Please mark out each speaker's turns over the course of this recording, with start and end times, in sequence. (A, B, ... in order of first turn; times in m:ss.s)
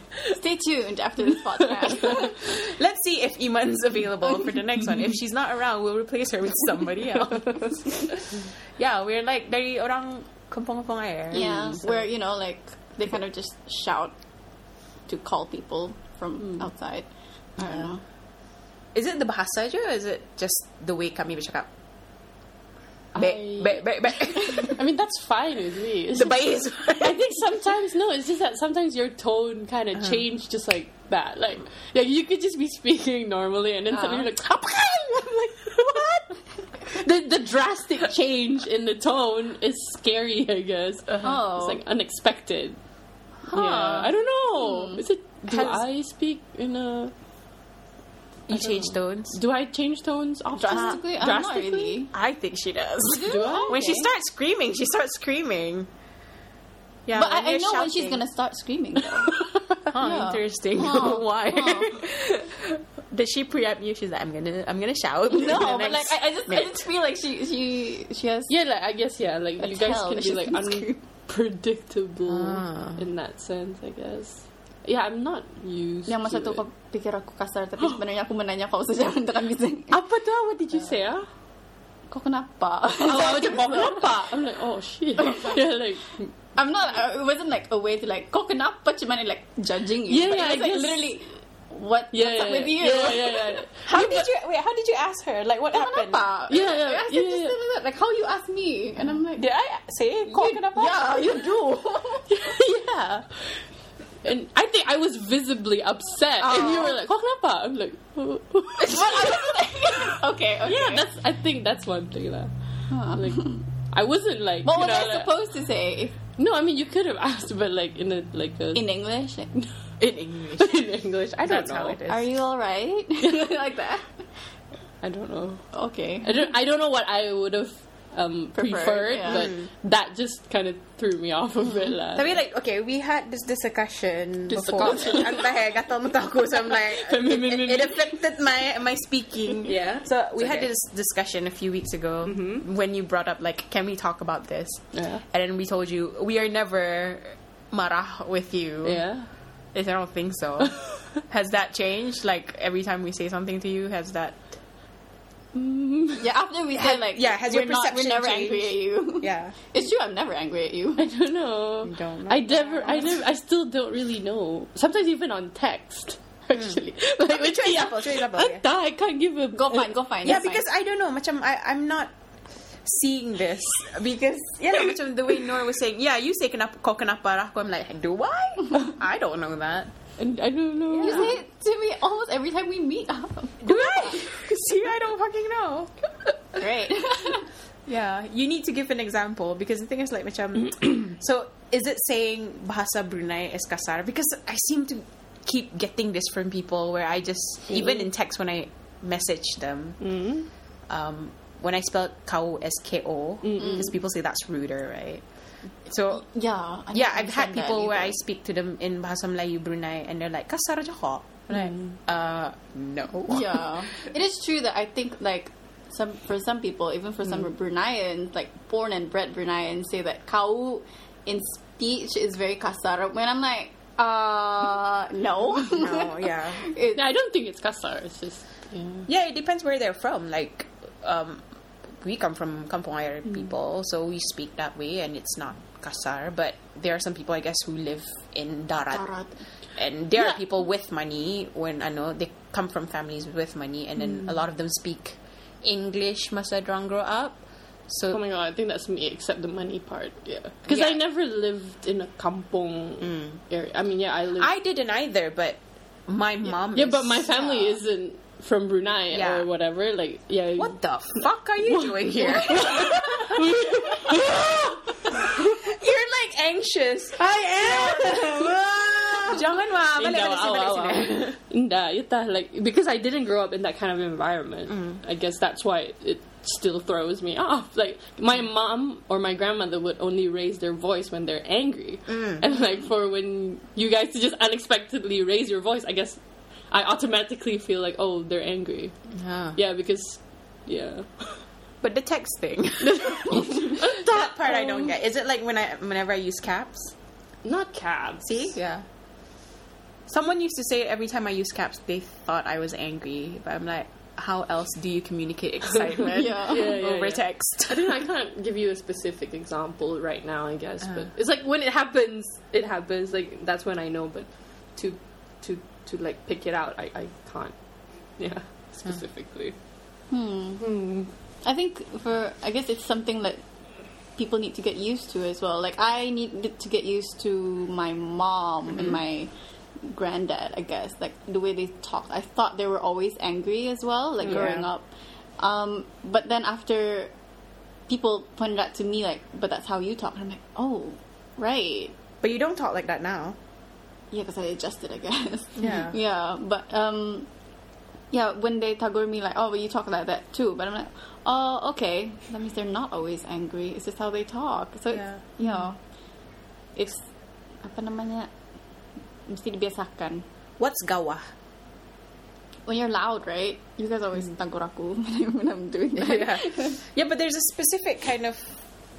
0:00.3-0:02.4 A
0:01.6-0:02.1 B
0:02.0-0:11.8 C
0:07.5-0:07.8 B
0:11.3-0:14.1 A
0:11.4-0:12.0 B
0:15.1-0:18.0 A
0:18.9-0:21.7 C
0:23.2-0:24.8 C
0:23.2-0:42.8 B
0:26.1-0:27.4 C
0:33.9-0:34.3 A
0:41.2-0:41.8 A
0:43.5-0:44.1 C
0:43.5-0:47.1 B
0:44.6-0:45.0 A
0:45.5-0:45.8 C
0:48.5-0:49.4 C
0:48.5-0:52.0 B
0:50.6-0:52.1 A
0:50.7-0:51.0 C
0:52.1-0:55.9 C
0:53.1-0:54.1 A
0:53.2-0:53.8 B
0:57.1-0:58.2 C
0:57.1-0:59.4 A
0:59.9-1:06.8 C
0:59.9-1:02.0 A
1:05.3-1:08.5 A
1:08.5-1:16.6 B
1:09.6-1:11.0 A
1:12.3-1:13.0 C
1:16.1-1:20.0 A
1:19.9-1:21.3 B
1:22.1-1:24.1 A
1:23.0-1:26.2 B
1:25.2-1:25.6 A
1:26.6-1:33.6 A
1:30.1-1:31.1 B
1:32.1-1:34.3 B
1:33.8-1:36.2 C
1:35.7-1:39.5 A
1:36.5-1:37.6 B
1:39.4-1:41.4 C
1:40.3-1:42.3 A
1:42.3-1:43.6 B
1:44.2-1:49.4 B
1:46.4-1:47.0 A
1:48.8-1:51.1 A
1:50.6-1:55.4 B
1:52.9-1:53.6 A
1:54.6-1:56.2 A
1:56.4-1:58.9 B
1:58.7-1:59.5 A
2:00.0-2:02.3 C
2:00.6-2:02.0 B
2:02.1-2:04.1 A
2:03.2-2:03.5 B
2:05.0-2:05.6 B
2:05.7-2:06.5 A
2:06.2-2:12.4 B
2:08.6-2:09.5 A
2:09.3-2:09.7 C
2:12.1-2:29.0 C
2:14.5-2:15.6 B
2:16.6-2:18.1 B
2:19.6-2:20.7 B
2:22.3-2:22.6 B
2:24.9-2:25.2 B
2:28.8-2:29.3 B
2:29.7-2:34.5 C
2:35.5-2:36.3 B
2:36.2-2:41.1 A
2:36.8-2:39.6 C
2:41.0-2:49.9 B
2:41.8-2:43.2 C
2:46.5-2:48.6 C
2:49.5-2:50.6 A
2:50.2-2:52.1 C
2:52.8-2:59.9 C
3:00.2-3:01.4 B
3:00.9-3:01.4 C
3:01.0-3:04.2 A
3:03.6-3:05.9 C
3:06.6-3:07.5 A
3:07.9-3:20.0 C
3:20.0-3:20.5 B
3:20.9-3:25.2 C
3:23.4-3:23.9 B
3:25.9-3:26.3 C
3:26.2-3:28.2 A
3:26.9-3:33.6 C
3:31.5-3:32.0 B
3:33.3-3:47.0 A
3:45.6-3:46.7 C
3:47.0-3:49.1 B
3:49.1-3:51.4 C
3:52.0-3:59.1 C
3:58.9-3:59.3 A
3:59.8-4:08.2 C
4:08.1-4:14.5 B
4:10.7-4:11.0 C
4:13.0-4:13.4 C
4:14.4-4:17.8 C
4:16.7-4:25.5 B
4:19.1-4:19.5 C
4:20.6-4:23.5 C
4:24.1-4:24.6 C
4:25.1-4:28.6 C
4:27.2-4:46.2 B
4:29.2-4:31.4 C
4:34.7-4:35.0 C
4:42.1-4:42.4 C
4:46.7-4:48.9 B
4:49.1-4:49.6 C
4:49.6-4:51.4 B
4:51.8-4:56.9 C
4:52.8-4:54.9 B
4:57.4-4:58.5 B
4:58.2-4:58.8 C
5:00.1-5:08.0 C
5:05.9-5:17.5 B
5:06.1-5:06.8 A
5:18.2-5:19.6 B
5:20.1-5:20.6 A
5:20.6-5:21.1 B
5:21.4-5:23.4 A
5:24.2-5:29.3 A
5:29.8-5:34.9 A
5:34.3-5:34.7 C
5:35.4-5:37.1 A
5:37.9-5:41.9 A
5:42.2-5:43.4 C
5:44.1-5:47.3 A
5:45.6-5:46.0 C
5:48.1-5:55.8 A
5:54.9-5:55.2 C
5:56.8-5:57.0 A
5:57.6-5:58.3 A
5:59.3-6:00.2 A
6:00.6-6:01.3 C
6:02.7-6:06.8 A
6:06.0-6:08.6 C